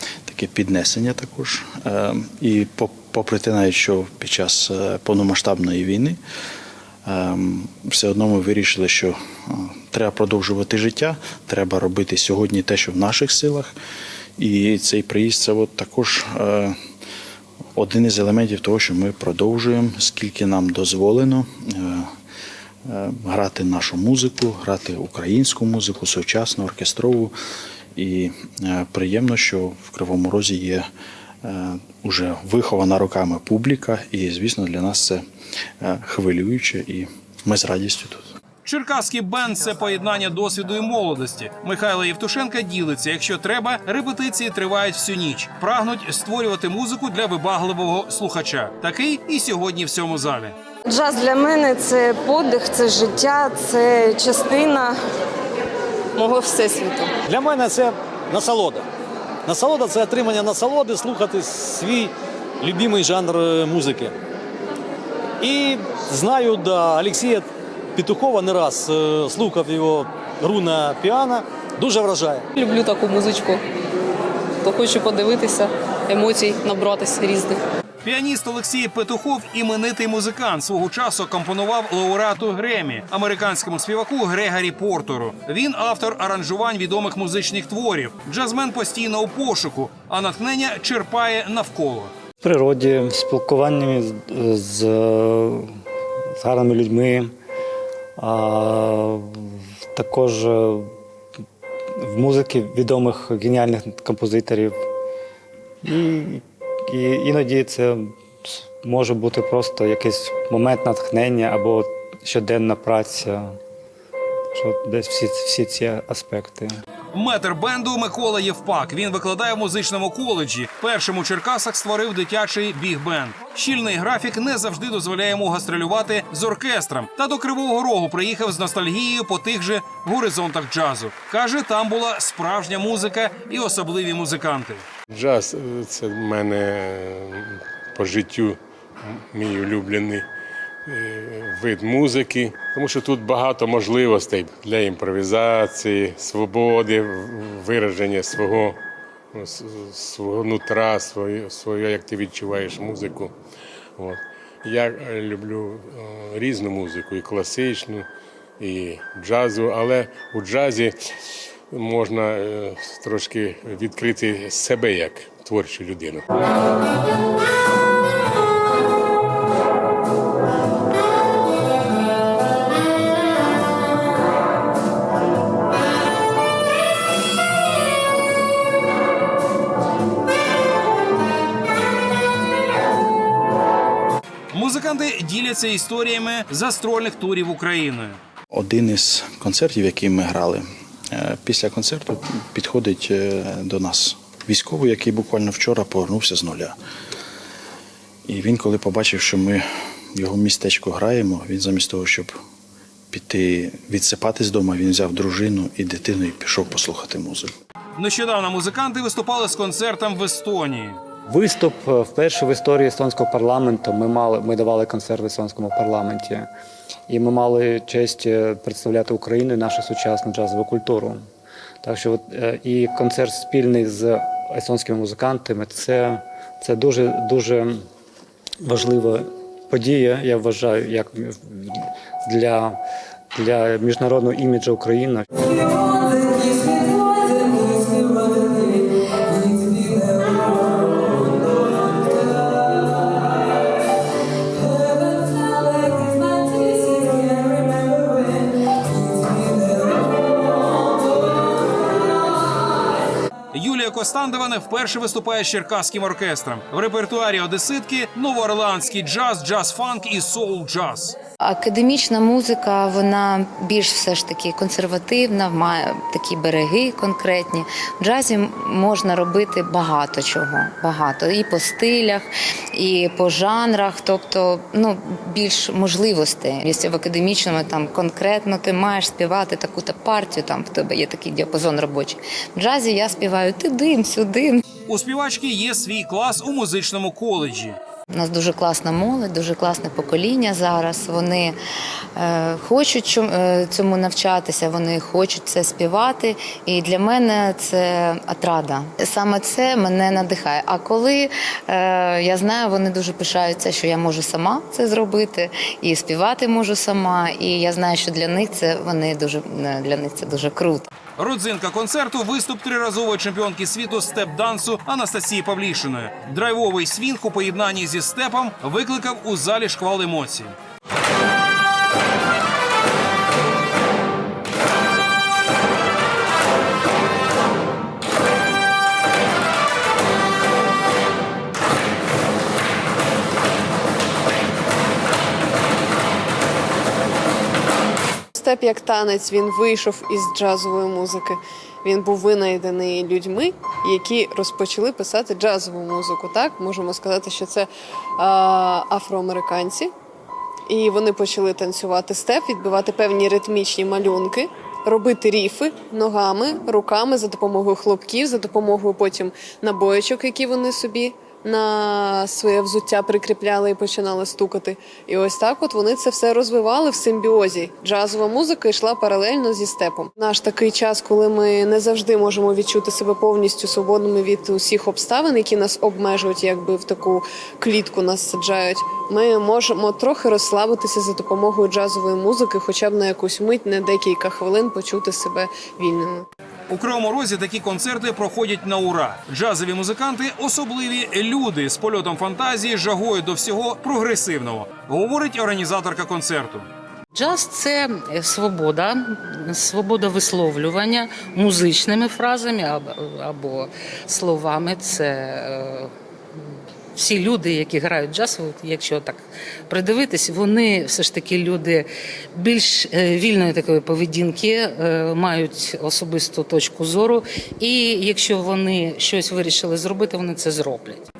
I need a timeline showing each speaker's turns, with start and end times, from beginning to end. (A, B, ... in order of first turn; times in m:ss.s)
0:00.3-0:06.2 A
0:07.0-0:13.7 A
0:14.4-0:16.7 A
0:17.7-0:22.1 A
0:22.9-0:27.3 A
0:28.0-0:30.9 A
0:31.4-0:35.2 A
0:35.8-0:38.3 A
0:38.6-0:50.6 B
0:50.9-0:54.9 C
0:56.2-0:57.1 C
0:57.2-0:58.8 D
0:59.4-1:04.1 D
1:05.4-1:12.4 D
1:12.6-1:13.6 E
1:14.6-1:17.6 E
1:18.0-1:32.1 B
1:32.4-1:35.7 F
1:36.4-1:37.3 F
1:38.2-1:39.4 F
1:39.9-1:40.9 F
1:42.0-1:44.8 F
1:45.8-1:53.5 F
1:54.5-1:56.7 F
1:57.1-2:14.8 B
2:15.1-2:20.2 G
2:20.9-2:28.8 G
2:29.3-2:33.3 G
2:34.0-2:38.1 G
2:38.6-2:41.0 G
2:41.7-2:46.2 G
3:04.5-3:08.2 B
3:08.5-3:16.8 A
3:18.3-3:22.4 A
3:23.1-3:27.5 A
3:28.0-3:31.0 B
3:31.3-3:36.5 F
3:37.1-3:41.2 F
3:41.8-3:47.8 F
3:48.6-3:52.8 F
3:53.3-3:55.2 F
4:13.5-4:21.2 B
4:21.4-4:44.6 H
4:44.9-4:47.8 B
4:48.1-4:51.5 H
4:52.2-5:10.9 H
5:11.2-5:20.6 B
5:38.3-5:49.9 I
5:50.7-6:26.2 I
6:26.7-6:36.7 B
6:37.1-6:45.9 J
6:47.0-7:01.0 J